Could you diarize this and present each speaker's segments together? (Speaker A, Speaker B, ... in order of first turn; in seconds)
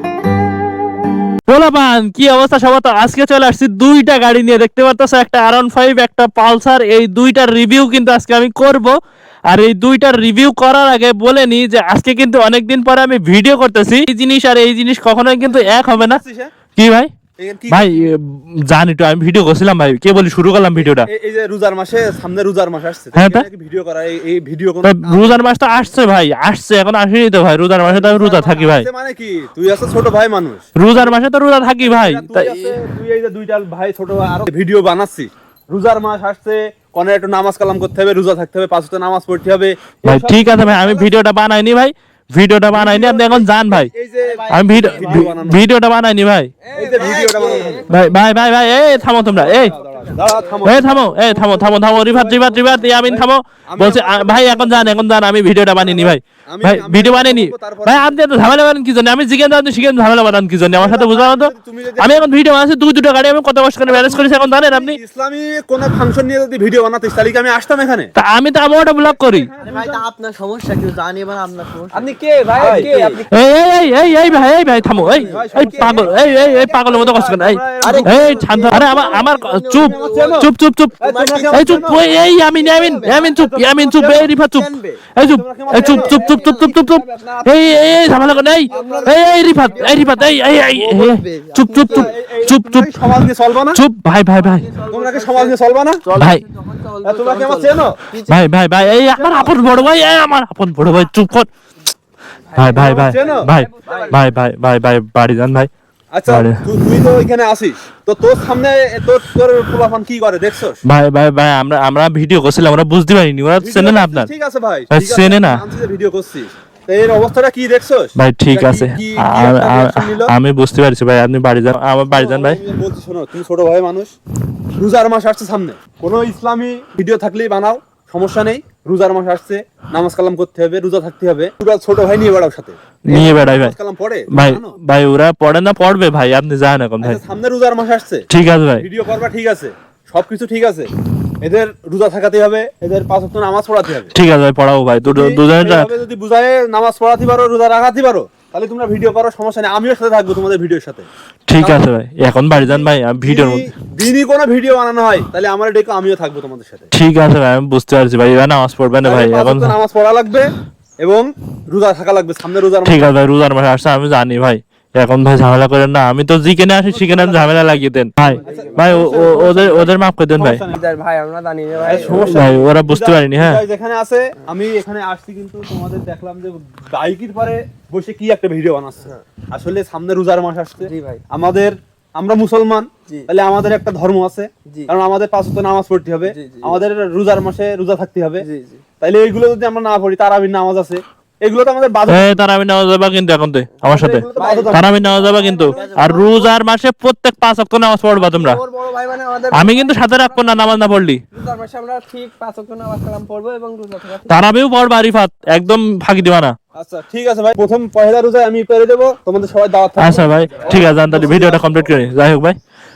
Speaker A: 1.5-16.2, 16.8-17.1, 17.7-21.1, 23.1-23.5, 24.8-28.9, 30.8-32.8, 40.0-43.9, 44.5-46.5, 47.9-49.7, 50.6-65.0, 68.2-69.5, 73.3-81.0, 81.5-92.9, 93.7-94.7, 96.2-96.4, 98.3-101.5, 102.5-105.7, 106.3-106.6, 110.8-114.3, 114.9-115.6, 118.2-122.6, 133.1-133.8, 134.3-137.2, 138.3-138.9, 144.1-145.9, 151.5-153.7, 156.9-159.8, 162.8-170.6, 172.1-173.6, 192.1-198.6, 199.5-201.2, 204.3-206.6, 210.0-212.6
Speaker B: 15.4-16.5, 17.4-18.1, 20.7-25.6, 27.8-31.2, 31.8-41.2, 42.7-45.7, 46.7-47.9, 49.4-55.0, 55.8-58.2, 60.7-62.3, 63.9-68.1, 69.0-70.0, 72.0-73.2, 75.2-79.0, 79.8-82.0, 83.1-84.3, 85.2-86.2, 88.8-89.2, 91.9-93.8, 94.9-96.0, 97.0-98.0, 99.1-99.7, 102.8-104.2, 106.1-110.8, 113.6-120.3, 122.1-124.1, 124.8-134.8, 137.0-138.3, 138.8-144.1, 145.1-151.1, 151.6-151.8, 152.5-156.9, 159.0-160.5, 161.0-163.2, 166.9-167.8, 168.4-170.8, 171.8-188.4, 189.0-192.4, 193.8-195.0, 206.8-212.1
Speaker C: 44.2-45.3, 46.6-50.6, 69.6-76.7, 77.8-80.4, 81.0-83.4, 84.0-85.0, 85.7-92.1, 94.3-100.1, 102.5-104.3, 168.2-169.6, 170.7-172.6, 180.8-181.2, 184.7-184.9, 186.3-186.8, 188.4-188.8, 194.3-196.5, 198.1-204.4, 210.5-210.8